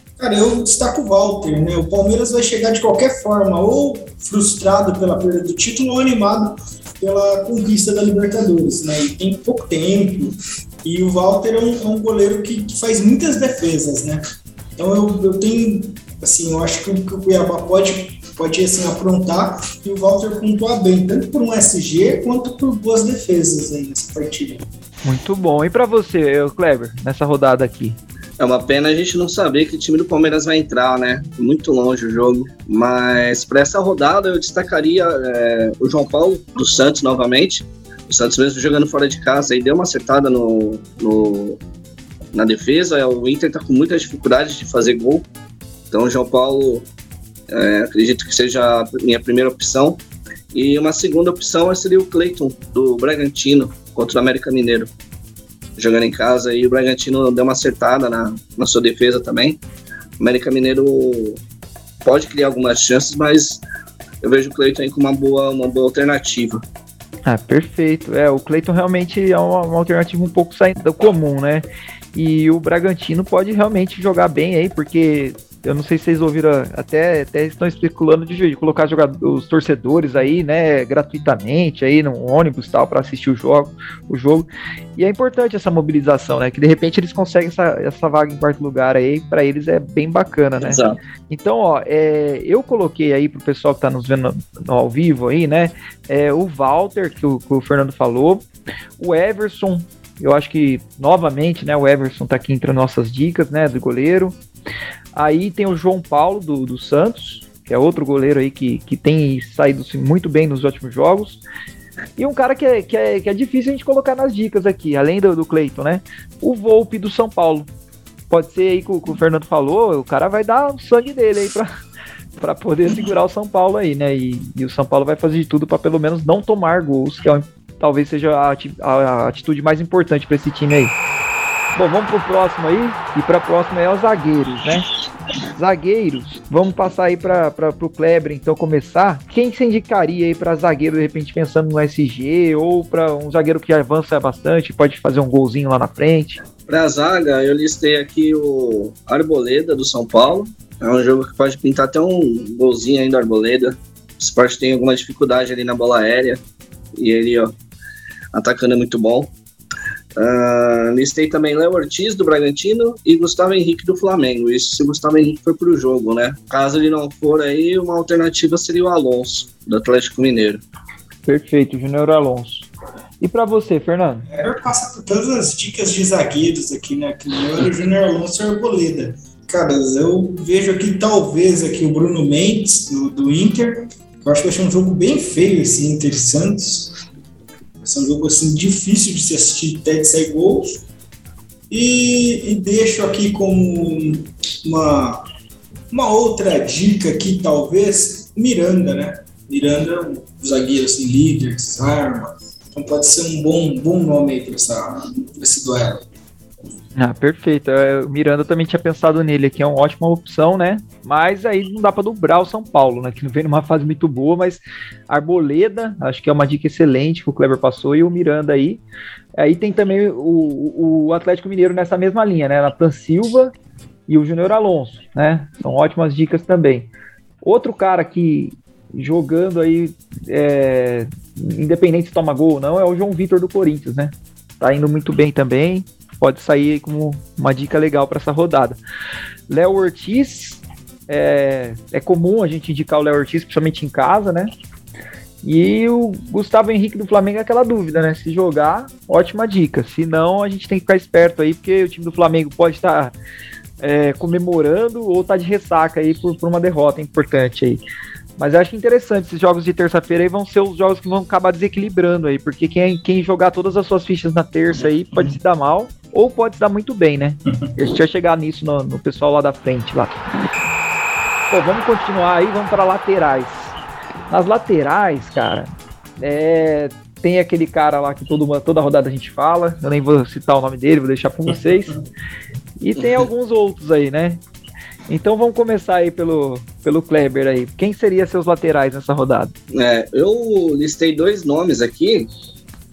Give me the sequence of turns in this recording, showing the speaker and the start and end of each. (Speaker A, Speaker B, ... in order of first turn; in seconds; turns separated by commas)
Speaker A: 0.2-14.2, Speaker A: 14.8-24.7, Speaker B: 25.1-28.0, Speaker C: 28.4-41.6, Speaker C: 42.3-45.3, Speaker C: 45.9-46.9, Speaker C: 47.5-54.9, Speaker C: 55.8-59.6, Speaker C: 60.2-61.4, Speaker C: 62.0-63.6, Speaker C: 64.2-66.6, Speaker B: 67.3-98.5, Speaker C: 90.6-91.0, Speaker B: 99.0-104.4, Speaker B: 105.1-111.4, Speaker B: 112.2-117.7, Speaker B: 118.3-121.7, Speaker B: 122.4-130.9, Speaker B: 131.8-134.9, Speaker B: 135.6-146.4, Speaker C: 146.7-156.4, Speaker C: 157.0-157.6, Speaker C: 158.3-159.3, Speaker C: 160.2-170.6, Speaker B: 171.3-172.7, Speaker B: 173.2-174.3, Speaker A: 174.3-186.9, Speaker A: 187.8-190.8, Speaker A: 191.7-195.2, Speaker A: 195.9-206.1, Speaker B: 207.0-218.8, Speaker B: 219.4-223.5, Speaker B: 224.1-226.9, Speaker B: 227.4-238.8, Speaker B: 239.5-244.5, Speaker B: 245.4-253.1, Speaker B: 253.8-257.8, Speaker B: 258.4-270.2, Speaker B: 271.5-273.8, Speaker B: 274.3-275.7, Speaker B: 276.2-282.0, Speaker B: 282.8-284.4, Speaker C: 283.0-283.3, Speaker B: 285.1-289.5, Speaker C: 289.7-292.3